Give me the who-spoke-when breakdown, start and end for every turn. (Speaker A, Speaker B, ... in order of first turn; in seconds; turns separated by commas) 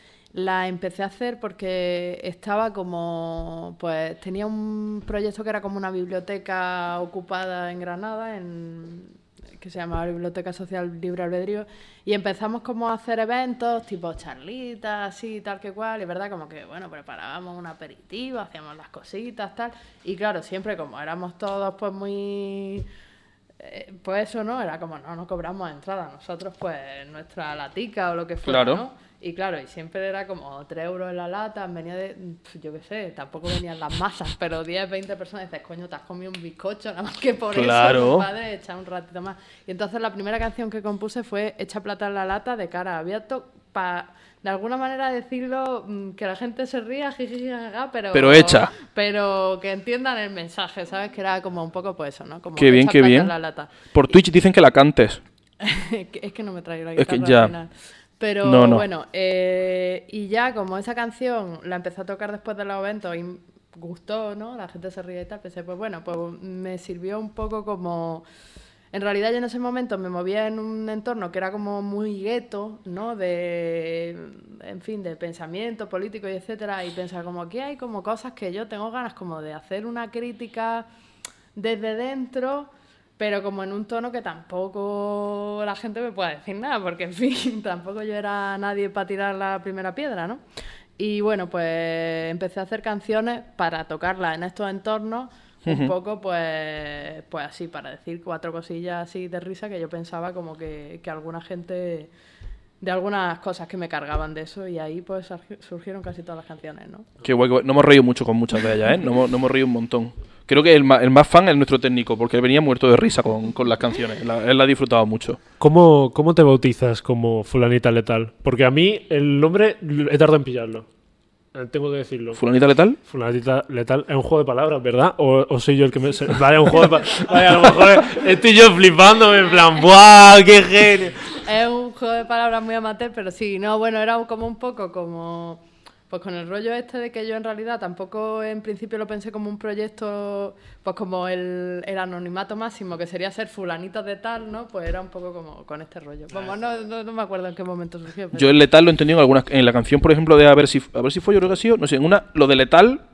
Speaker A: 0.3-22.9, Speaker A: 23.6-53.9, Speaker B: 28.4-28.8, Speaker B: 37.5-38.3, Speaker B: 48.1-48.7, Speaker B: 52.5-53.3, Speaker B: 53.9-55.2, Speaker A: 55.6-68.2, Speaker B: 57.0-57.5, Speaker B: 58.4-58.9, Speaker A: 68.9-80.9, Speaker A: 81.5-90.4, Speaker A: 91.0-102.1, Speaker B: 95.7-95.9, Speaker A: 102.8-107.1, Speaker B: 107.2-115.4, Speaker C: 115.6-120.9, Speaker C: 121.5-122.4, Speaker B: 122.4-123.0, Speaker C: 123.1-131.4, Speaker A: 131.3-148.6, Speaker B: 148.3-153.0